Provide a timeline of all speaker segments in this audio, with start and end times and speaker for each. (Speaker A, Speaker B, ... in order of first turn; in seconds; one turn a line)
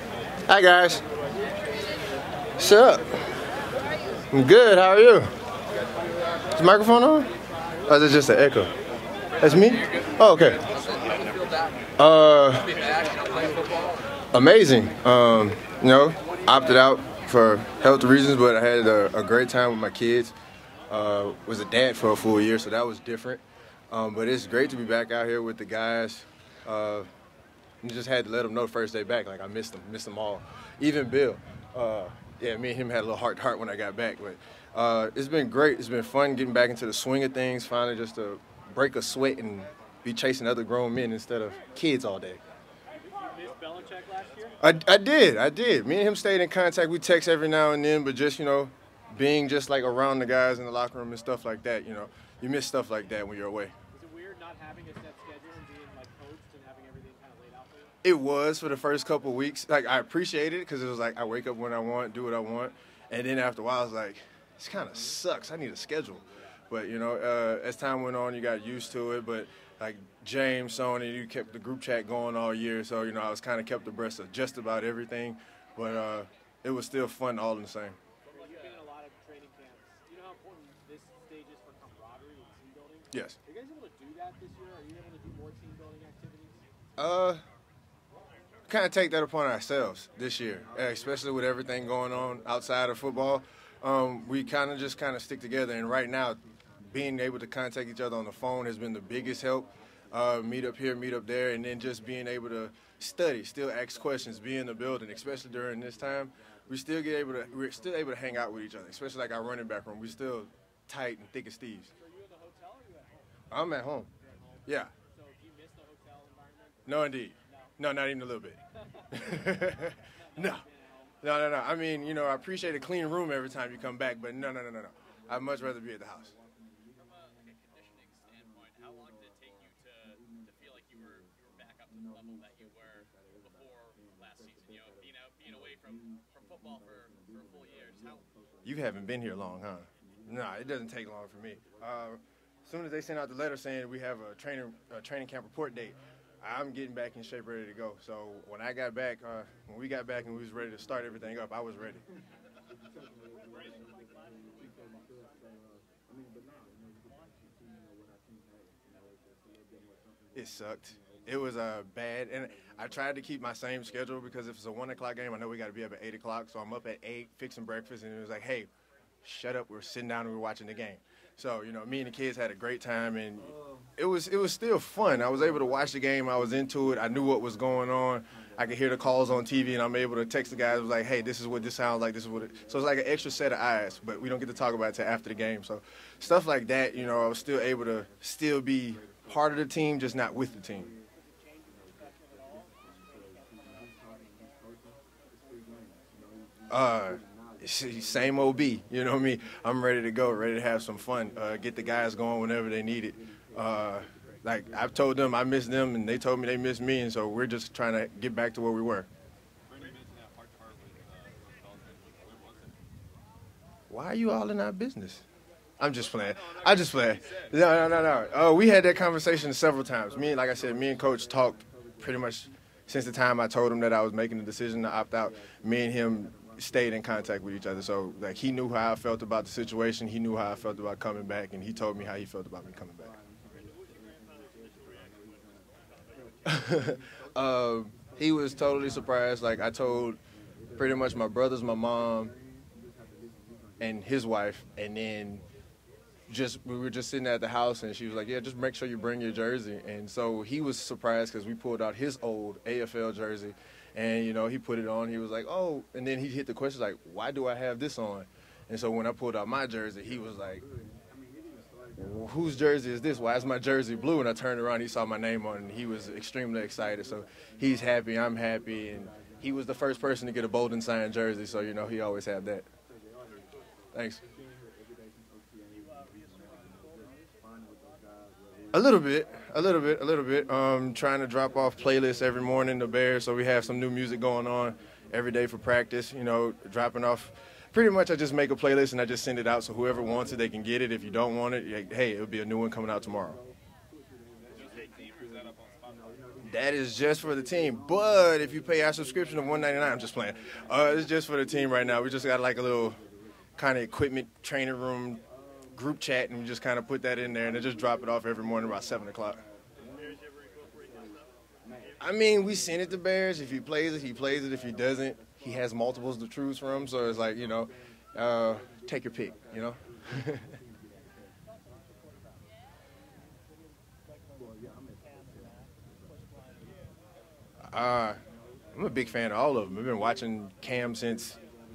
Speaker A: 0.5-1.0
Speaker A: 2.6-3.2
Speaker A: 4.3-5.3
Speaker A: 6.5-7.3
Speaker A: 7.9-8.7
Speaker A: 9.4-10.6
Speaker A: 12.0-12.9
Speaker A: 14.3-20.3
Speaker A: 20.9-27.1
Speaker A: 27.8-42.4
Speaker B: 43.0-44.6
Speaker A: 44.6-53.7
Speaker B: 53.9-57.9
Speaker A: 58.0-78.0
Speaker B: 78.3-86.6
Speaker A: 83.1-83.4
Speaker A: 87.0-87.4
Speaker A: 88.7-111.9
Speaker B: 112.0-113.3
Speaker A: 113.5-114.1
Speaker B: 114.2-116.9
Speaker A: 114.7-114.9
Speaker A: 116.8-118.6
Speaker B: 117.5-117.7
Speaker B: 118.8-121.1
Speaker A: 119.1-120.6
Speaker A: 121.2-126.3
Speaker C: 127.0-138.3
Speaker A: 138.6-152.0
Speaker C: 153.4-154.9
Speaker A: 160.3-168.7
Speaker A: 169.2-190.9
Speaker B: 191.4-193.5
Speaker A: 196.7-209.1
Speaker C: 209.7-212.8
Speaker A: 213.9-215.2
Speaker A: 215.8-233.2
Speaker C: 216.4-217.6
Speaker C: 233.6-235.7
Speaker A: 236.4-240.2
Speaker A: 240.8-242.3
Speaker A: 243.8-245.4
Speaker A: 246.3-260.6
Speaker A: 261.9-272.6
Speaker A: 273.9-274.2
Speaker A: 278.7-293.4
Speaker C: 294.4-296.4
Speaker A: 296.4-303.0
Speaker A: 303.6-309.4
Speaker A: 312.0-320.5
Speaker A: 327.6-328.2
Speaker A: 328.7-331.4